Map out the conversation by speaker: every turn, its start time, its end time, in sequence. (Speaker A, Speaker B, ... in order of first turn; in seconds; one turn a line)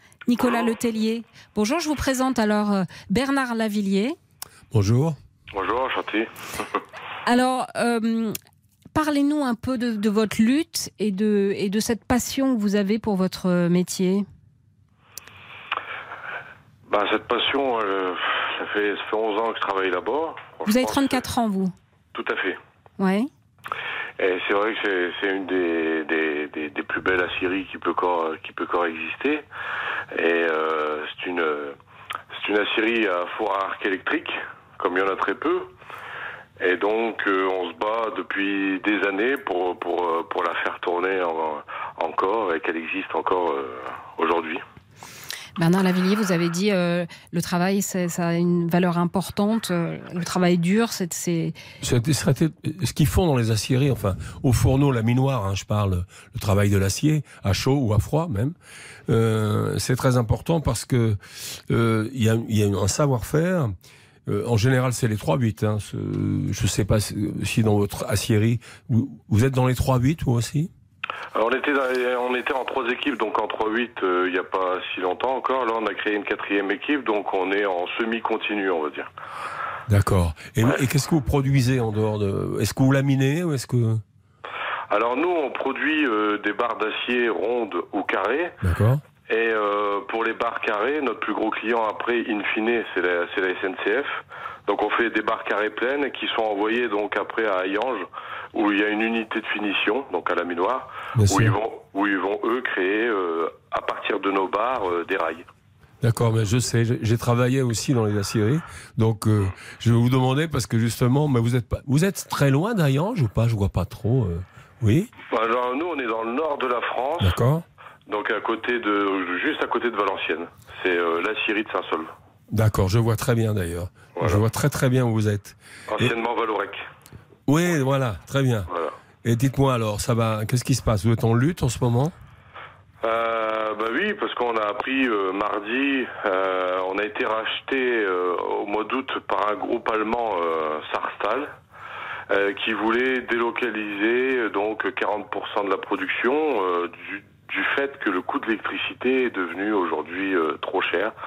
Speaker A: 0.3-4.2
Speaker B: 4.7-5.2
Speaker C: 5.5-6.8
Speaker A: 7.2-8.3
Speaker A: 8.9-14.2
Speaker C: 16.9-21.2
Speaker A: 20.6-21.7
Speaker C: 22.1-22.6
Speaker A: 23.0-23.3
Speaker C: 24.2-29.4
Speaker C: 30.1-31.8
Speaker C: 32.3-35.7
Speaker C: 36.6-44.6
Speaker A: 45.6-51.5
Speaker B: 51.8-58.5
Speaker B: 59.1-63.7
Speaker B: 64.3-70.7
Speaker C: 71.3-79.1
Speaker B: 79.9-84.0
Speaker C: 84.9-88.5
Speaker B: 88.6-89.0
Speaker C: 89.3-105.4
Speaker B: 101.2-101.6
Speaker B: 106.0-115.1
Speaker C: 115.3-117.4
Speaker B: 117.2-117.6
Speaker C: 118.1-122.1
Speaker B: 122.5-126.2
Speaker C: 125.9-126.8
Speaker B: 127.5-128.7
Speaker B: 129.2-132.1
Speaker C: 133.0-141.5
Speaker C: 142.3-151.1